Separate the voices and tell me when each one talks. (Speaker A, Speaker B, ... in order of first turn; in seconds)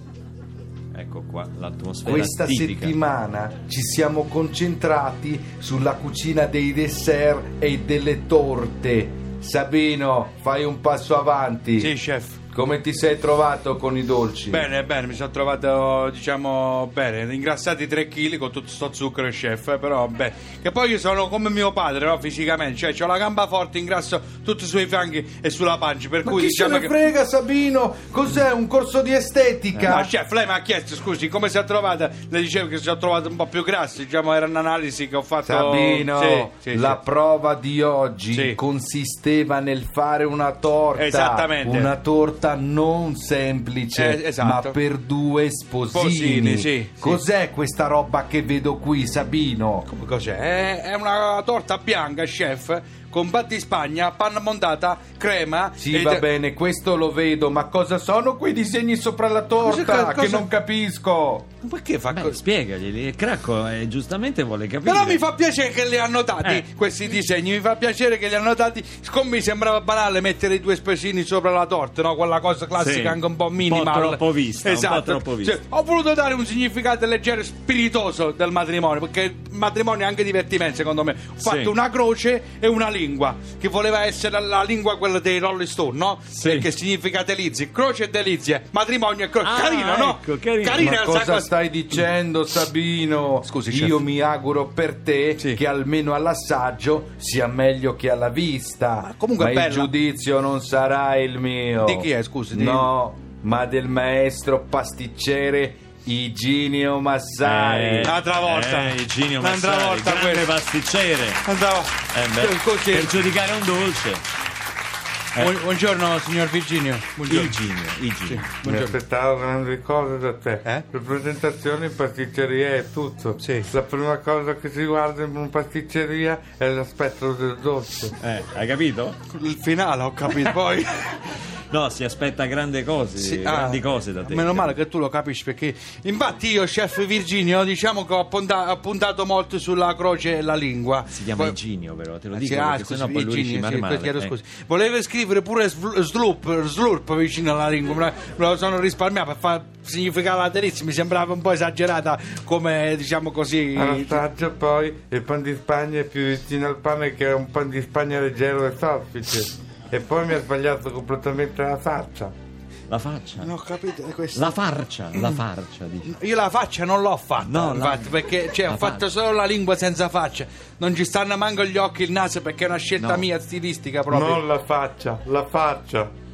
Speaker A: 0.9-2.9, 29.7-30.0, 62.1-65.2, 72.8-75.6, 81.4-81.7, 86.3-86.7, 89.4-90.9, 107.4-111.4, 112.1-114.2, 117.3-118.5, 128.2-129.2, 131.7-134.7, 141.1-144.3, 162.9-163.5, 164.3-166.1, 167.4-169.1, 173.0-173.3
Speaker B: 2.0-11.9, 12.5-14.7, 26.2-30.1, 35.4-49.9, 55.8-61.5, 90.8-108.1
Speaker C: 11.8-12.4, 14.5-27.0, 29.9-37.0, 38.3-38.6, 40.9-41.9, 43.9-44.8, 45.9-47.2, 49.9-56.3, 59.6-60.5, 61.6-62.4, 64.8-92.0, 93.4-94.0, 99.0-99.9, 101.8-102.9, 108.0-110.5, 111.4-113.2, 115.3-117.6, 118.3-119.0, 123.4-123.7, 129.3-131.3, 133.2-141.6, 142.3-154.2, 163.4-164.6, 165.1-165.4, 166.0-174.4
Speaker D: 118.6-128.1, 153.7-162.3, 174.1-176.1